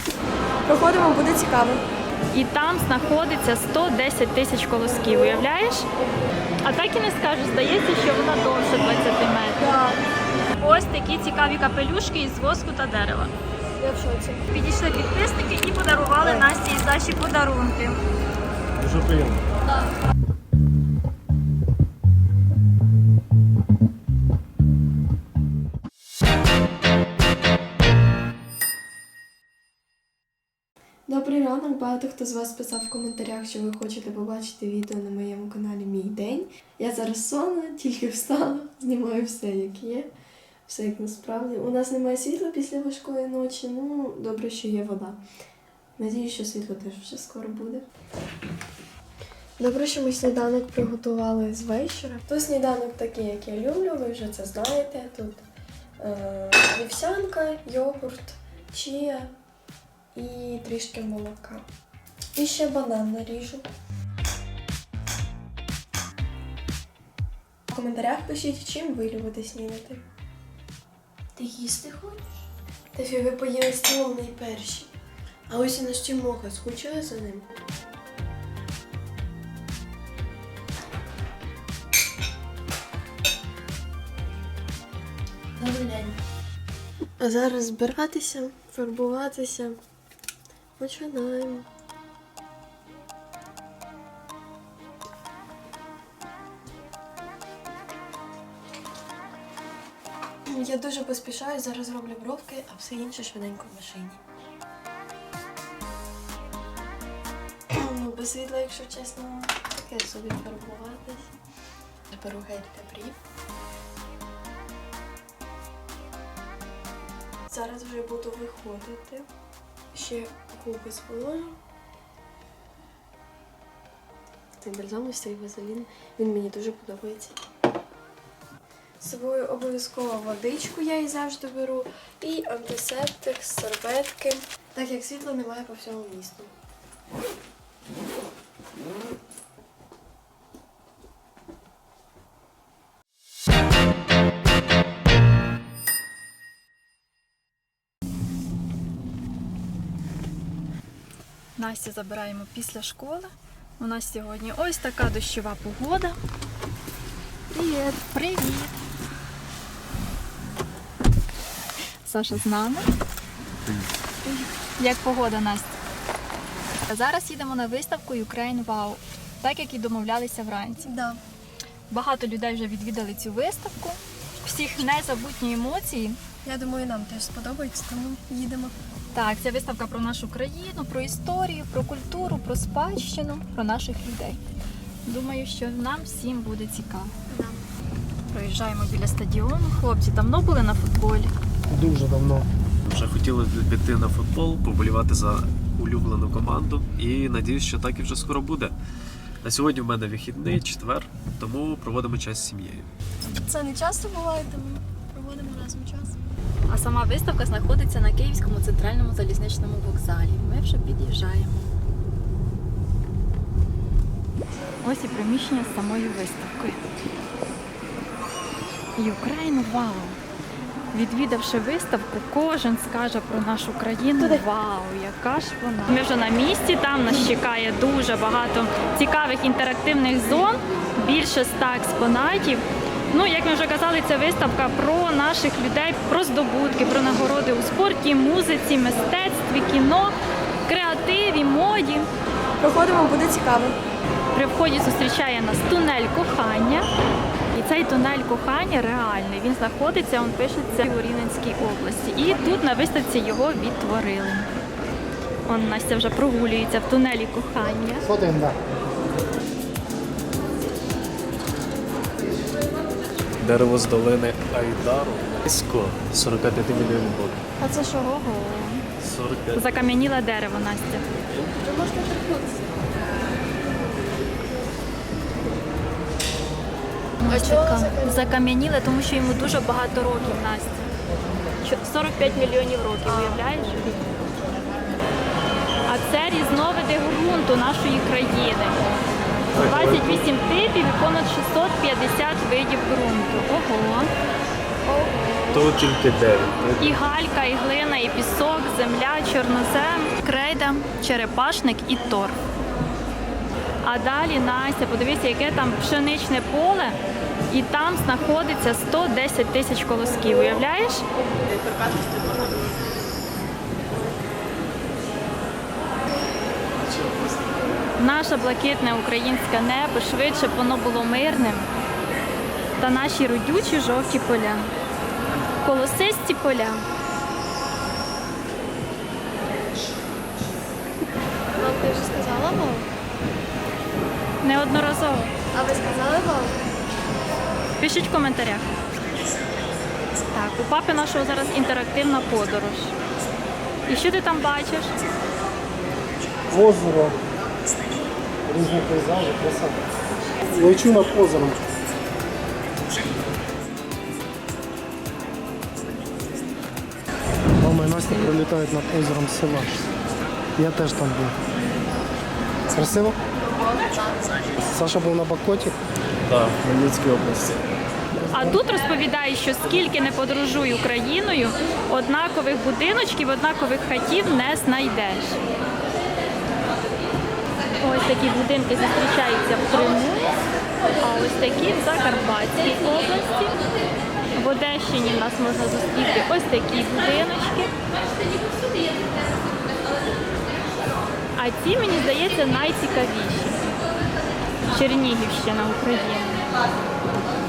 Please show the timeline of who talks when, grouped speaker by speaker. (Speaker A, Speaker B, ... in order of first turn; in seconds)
Speaker A: 0.7-1.8, 9.6-10.0, 13.8-14.5, 31.1-40.1, 40.7-45.2, 46.0-47.9, 49.6-55.4, 56.0-59.3, 60.1-61.6, 62.4-63.7, 67.7-70.0, 71.3-74.9, 75.5-77.5, 85.5-86.2, 87.2-89.8, 90.8-91.7, 100.5-104.2, 107.7-111.3, 112.1-113.2, 117.5-119.2, 119.9-121.5, 124.6-127.4, 129.0-136.5, 170.8-171.2, 176.4-178.7, 187.3-187.7, 203.3-206.2, 242.6-243.8, 267.6-268.1, 271.6-272.9, 277.3-278.4, 294.9-295.7, 331.6-332.9, 335.5-336.6, 363.4-364.5
Speaker B: 2.3-5.9, 6.6-9.6, 10.5-13.3, 14.5-18.0, 151.6-156.2, 157.5-158.7, 162.0-162.9, 164.3-165.7, 166.9-170.9, 171.9-176.2, 179.1-184.4, 185.1-187.1, 188.3-191.3, 206.7-211.7, 214.8-216.8, 219.0-220.2, 220.9-240.1, 240.7-242.1, 244.3-246.9, 247.5-254.5, 255.4-258.1, 268.0-268.8, 269.5-271.1, 277.2-280.9, 281.6-283.9, 285.9-288.8, 289.6-294.1, 296.8-302.4, 303.8-307.0, 307.5-311.0, 318.0-321.7, 322.8-324.7, 325.6-326.9, 334.4-335.3, 337.8-338.7, 340.3-342.9, 343.9-344.9, 368.3-375.4, 377.8-380.3, 381.0-383.6, 384.3-387.7, 391.4-393.7, 394.7-396.4
Speaker C: 18.8-19.4, 192.8-198.8, 199.4-202.9, 263.4-267.4, 269.0-269.6, 289.5-290.2, 295.5-297.0, 316.8-317.7, 366.3-367.6
Speaker D: 191.7-192.5, 258.0-258.6, 346.5-347.2, 348.4-349.8, 350.4-351.7, 357.6-359.9, 360.6-361.4, 362.7-363.2, 364.6-365.8, 368.3-368.6